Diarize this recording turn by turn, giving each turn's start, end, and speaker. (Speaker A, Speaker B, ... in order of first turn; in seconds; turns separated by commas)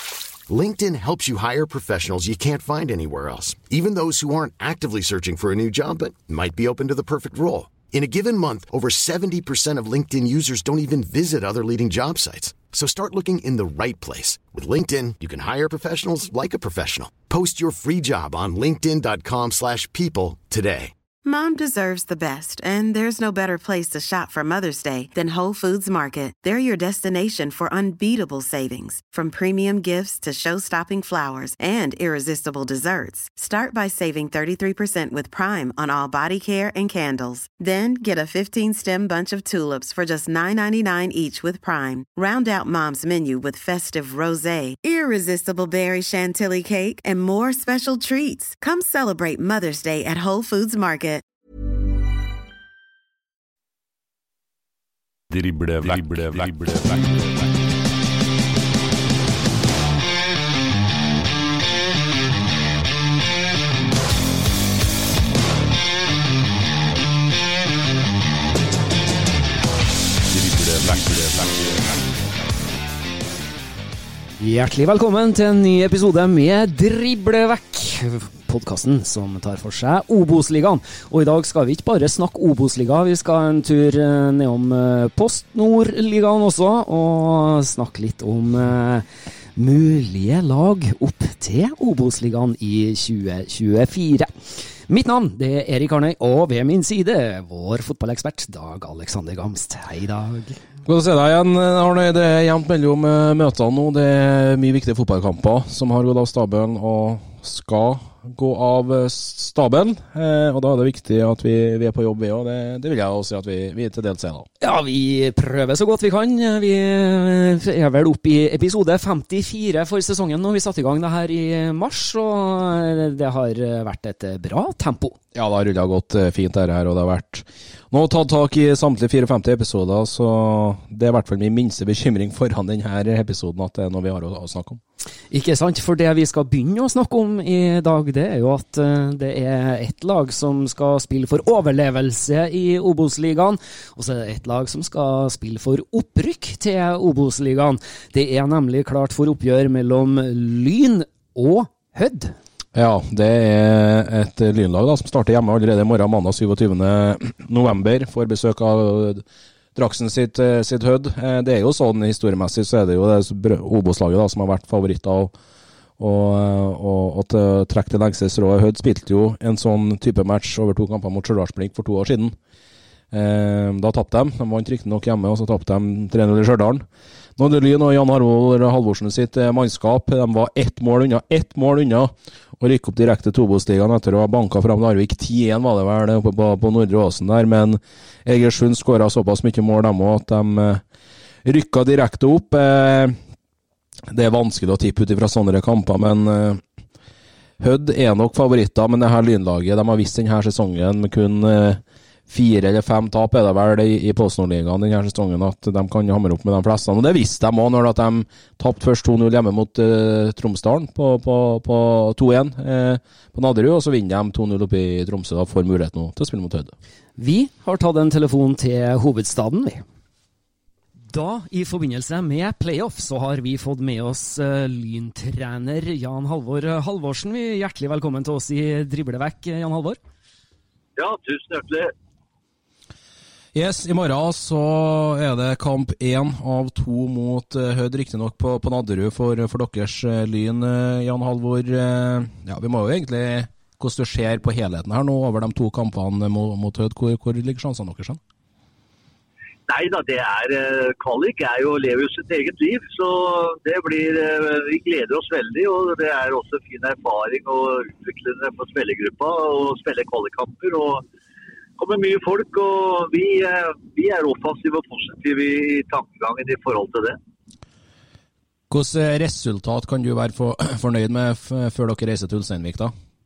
Speaker A: 0.5-20.9, Speaker B: 21.2-51.2, Speaker C: 55.3-57.6, Speaker C: 70.3-72.2, Speaker D: 74.4-89.0, Speaker D: 89.5-94.3, Speaker D: 94.9-100.6, Speaker E: 100.8-114.5, Speaker D: 114.6-125.2, Speaker E: 125.3-134.8, Speaker D: 135.3-152.3, Speaker E: 152.7-159.2, Speaker E: 159.7-165.3, Speaker E: 166.0-172.3, Speaker E: 173.1-176.8, Speaker E: 177.4-190.8, Speaker E: 191.4-193.2, Speaker E: 194.1-196.6, Speaker E: 197.6-216.7, Speaker D: 217.2-219.8, Speaker D: 221.1-230.0, Speaker F: 230.9-231.9, Speaker E: 233.5-248.2, Speaker F: 249.7-261.0, Speaker F: 261.8-267.2, Speaker E: 268.7-272.9